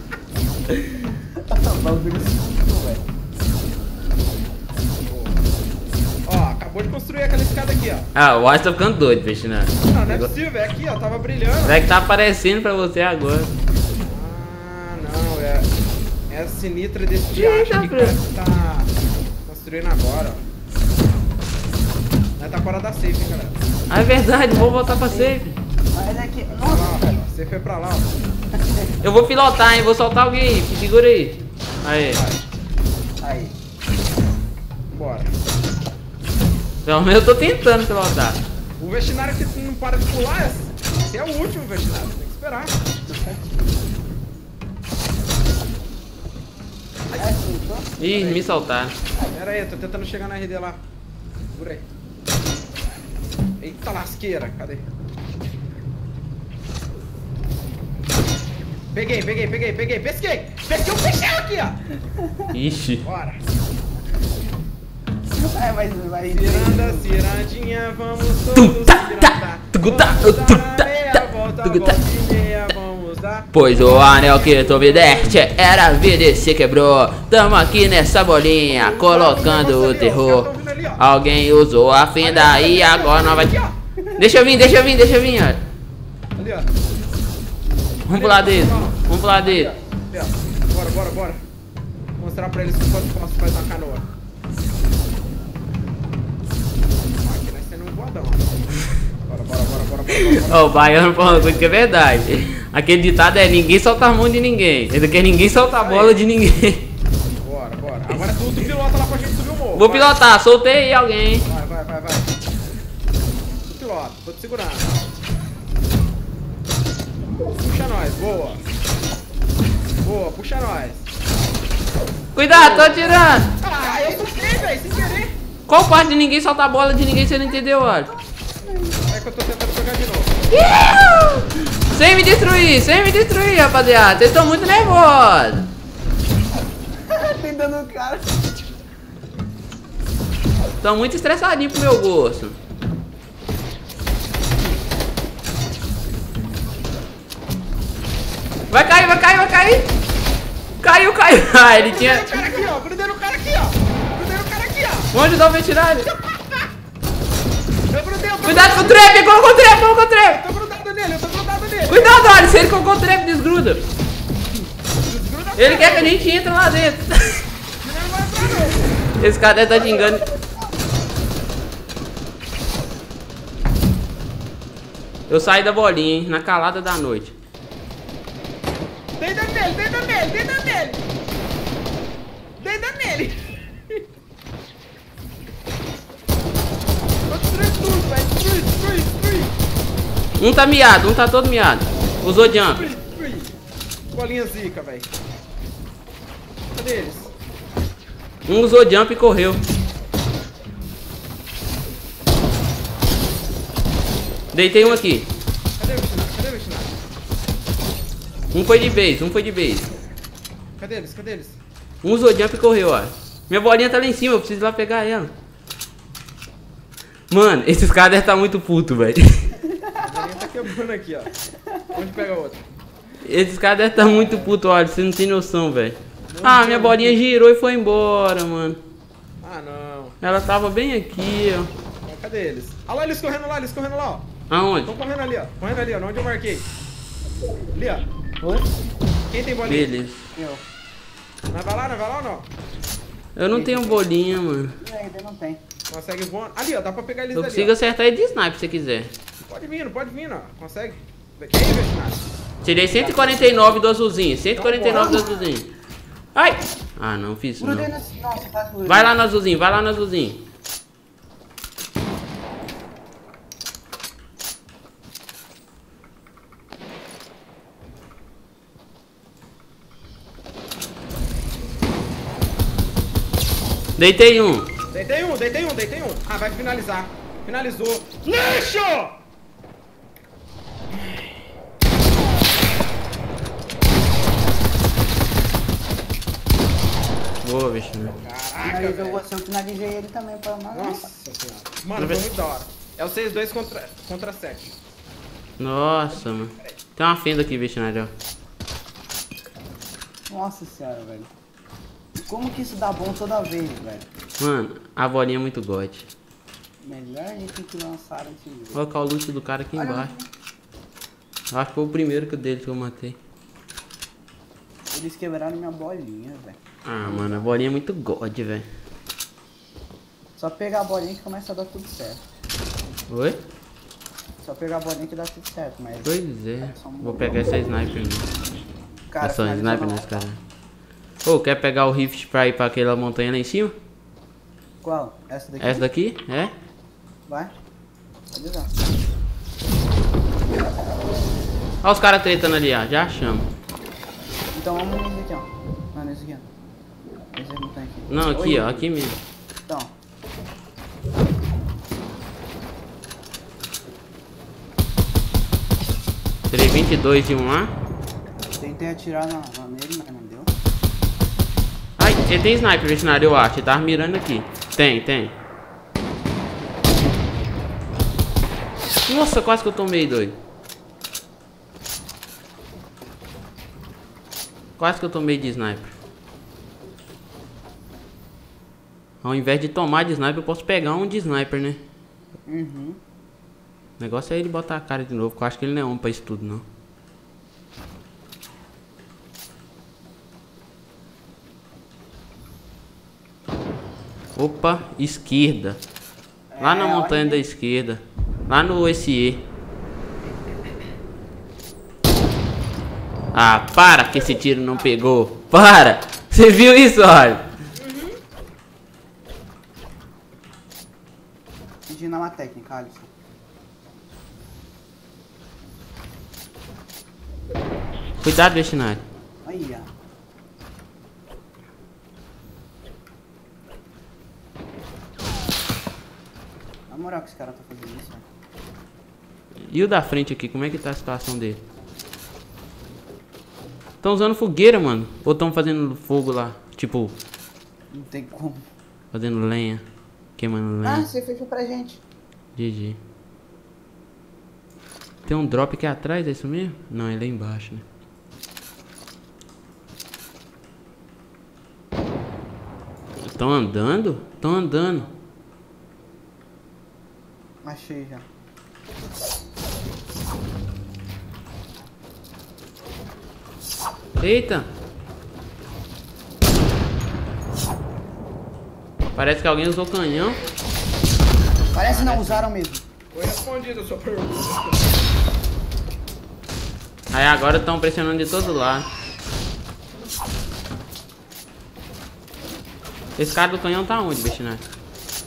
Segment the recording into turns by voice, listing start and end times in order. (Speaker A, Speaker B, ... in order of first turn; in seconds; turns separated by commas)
Speaker A: 1.5-3.0, Speaker B: 5.0-5.4, Speaker B: 6.2-8.1, Speaker C: 8.1-10.3, Speaker B: 9.8-11.8, Speaker C: 11.6-13.5, Speaker B: 14.0-15.7, Speaker B: 16.3-20.4, Speaker C: 17.3-18.1, Speaker B: 22.4-23.6, Speaker C: 23.9-25.6, Speaker A: 24.5-25.4, Speaker A: 25.9-27.3, Speaker B: 26.5-28.1, Speaker A: 28.6-29.0, Speaker C: 29.0-32.2, Speaker B: 31.9-32.4, Speaker A: 33.2-33.5, Speaker B: 34.9-35.3, Speaker C: 36.9-38.4, Speaker B: 38.8-42.7, Speaker A: 43.0-44.0, Speaker B: 47.1-47.4, Speaker A: 47.1-47.9, Speaker C: 48.0-49.0, Speaker B: 48.0-48.6, Speaker B: 49.2-50.8, Speaker B: 51.5-51.8, Speaker B: 53.6-54.8, Speaker B: 58.9-61.8, Speaker A: 62.2-62.5, Speaker C: 62.5-63.0, Speaker B: 63.0-63.4, Speaker A: 65.4-67.1, Speaker B: 66.3-75.3, Speaker C: 68.5-72.0, Speaker C: 73.5-83.5, Speaker B: 78.7-81.0, Speaker B: 82.2-83.7, Speaker C: 84.2-85.6, Speaker B: 86.3-86.7, Speaker C: 88.0-89.7, Speaker B: 88.1-91.4, Speaker B: 92.2-94.0, Speaker B: 97.2-98.6, Speaker B: 99.2-101.6, Speaker C: 100.2-106.9, Speaker B: 105.7-106.2, Speaker B: 107.4-110.2, Speaker C: 109.7-111.5, Speaker B: 111.4-112.3, Speaker B: 113.7-115.1, Speaker B: 117.6-118.6, Speaker B: 120.0-121.1, Speaker C: 122.3-123.5, Speaker A: 122.5-125.2, Speaker B: 123.6-125.3, Speaker C: 125.7-128.1, Speaker A: 128.1-129.0, Speaker B: 129.1-130.5, Speaker C: 130.5-135.7, Speaker A: 137.1-138.5, Speaker C: 140.8-142.6, Speaker C: 148.7-149.9, Speaker C: 150.8-152.3, Speaker B: 151.8-155.1, Speaker C: 155.1-156.1, Speaker B: 156.3-156.6, Speaker B: 157.9-159.5, Speaker C: 158.4-160.4, Speaker B: 160.3-162.6, Speaker C: 161.9-163.8, Speaker B: 164.9-166.3, Speaker C: 165.6-167.4, Speaker B: 167.8-169.0, Speaker C: 169.2-170.2, Speaker A: 169.7-170.4, Speaker C: 175.3-177.3, Speaker B: 179.2-181.0, Speaker B: 182.6-183.5, Speaker B: 187.3-189.5, Speaker C: 190.4-192.8, Speaker B: 192.7-193.5, Speaker B: 194.1-195.1, Speaker B: 196.7-197.3, Speaker C: 198.4-199.7, Speaker C: 204.5-205.3, Speaker B: 204.8-205.0, Speaker B: 205.8-207.0, Speaker C: 208.5-209.9, Speaker B: 210.8-211.6, Speaker C: 212.0-215.3, Speaker C: 217.3-219.5, Speaker A: 219.7-220.2, Speaker B: 220.0-221.3, Speaker B: 221.9-222.7, Speaker C: 223.2-228.8, Speaker A: 223.9-224.5, Speaker A: 226.3-227.2, Speaker B: 229.4-230.2, Speaker C: 230.2-231.7, Speaker B: 232.0-234.3, Speaker C: 234.5-234.9, Speaker B: 234.8-236.7, Speaker B: 237.7-238.1, Speaker B: 239.3-239.9, Speaker C: 239.7-240.2, Speaker A: 240.3-240.7, Speaker B: 241.5-242.5, Speaker C: 243.3-244.8, Speaker A: 243.5-244.1, Speaker A: 244.7-245.6, Speaker B: 245.9-247.8, Speaker C: 247.3-249.1, Speaker B: 249.4-252.2, Speaker C: 252.6-255.7, Speaker A: 252.9-253.8, Speaker B: 254.5-255.4, Speaker A: 254.9-255.4, Speaker C: 256.3-257.9, Speaker A: 257.6-259.2, Speaker C: 258.9-260.4, Speaker C: 274.0-274.7, Speaker B: 274.9-279.1, Speaker C: 287.4-288.1, Speaker B: 288.1-289.2, Speaker A: 288.6-291.1, Speaker B: 290.7-294.7, Speaker C: 292.0-292.2, Speaker C: 295.6-298.1, Speaker B: 296.1-296.8, Speaker A: 300.3-301.3, Speaker A: 302.2-304.1, Speaker C: 304.4-306.1, Speaker A: 306.8-308.8, Speaker C: 308.7-310.1, Speaker A: 309.7-310.3, Speaker C: 311.5-313.1, Speaker A: 314.9-317.6, Speaker C: 316.9-318.7, Speaker A: 320.4-322.2, Speaker C: 323.1-323.4, Speaker A: 324.4-327.6, Speaker C: 326.0-328.3, Speaker A: 329.1-330.2, Speaker C: 329.2-330.4, Speaker C: 331.2-333.7, Speaker A: 334.8-335.8, Speaker C: 335.6-336.5, Speaker A: 337.3-337.5, Speaker A: 338.3-338.7, Speaker C: 341.8-343.5, Speaker A: 344.5-346.5, Speaker A: 347.3-348.9, Speaker C: 348.1-349.2, Speaker A: 349.6-349.9, Speaker C: 356.5-357.7, Speaker A: 358.5-360.5, Speaker C: 362.0-365.3, Speaker C: 369.1-370.4, Speaker C: 374.8-375.9, Speaker C: 379.2-381.8, Speaker A: 382.5-383.0, Speaker C: 384.0-386.6, Speaker C: 394.3-395.8, Speaker A: 396.5-397.4, Speaker C: 396.6-399.4, Speaker C: 403.3-407.4, Speaker B: 407.8-408.1, Speaker A: 411.9-413.1, Speaker C: 418.2-419.0, Speaker A: 419.4-419.9, Speaker A: 426.9-428.2, Speaker C: 429.7-431.6, Speaker C: 434.0-437.1, Speaker A: 437.9-438.7, Speaker C: 439.1-439.8, Speaker C: 440.4-441.1, Speaker A: 440.8-442.0, Speaker C: 442.6-443.0, Speaker C: 445.2-447.8, Speaker C: 453.2-455.1, Speaker A: 457.6-458.2, Speaker C: 464.2-464.7, Speaker C: 469.1-470.4, Speaker A: 471.7-472.8, Speaker C: 471.9-472.5, Speaker B: 473.1-474.8, Speaker C: 477.1-478.9, Speaker C: 483.2-484.6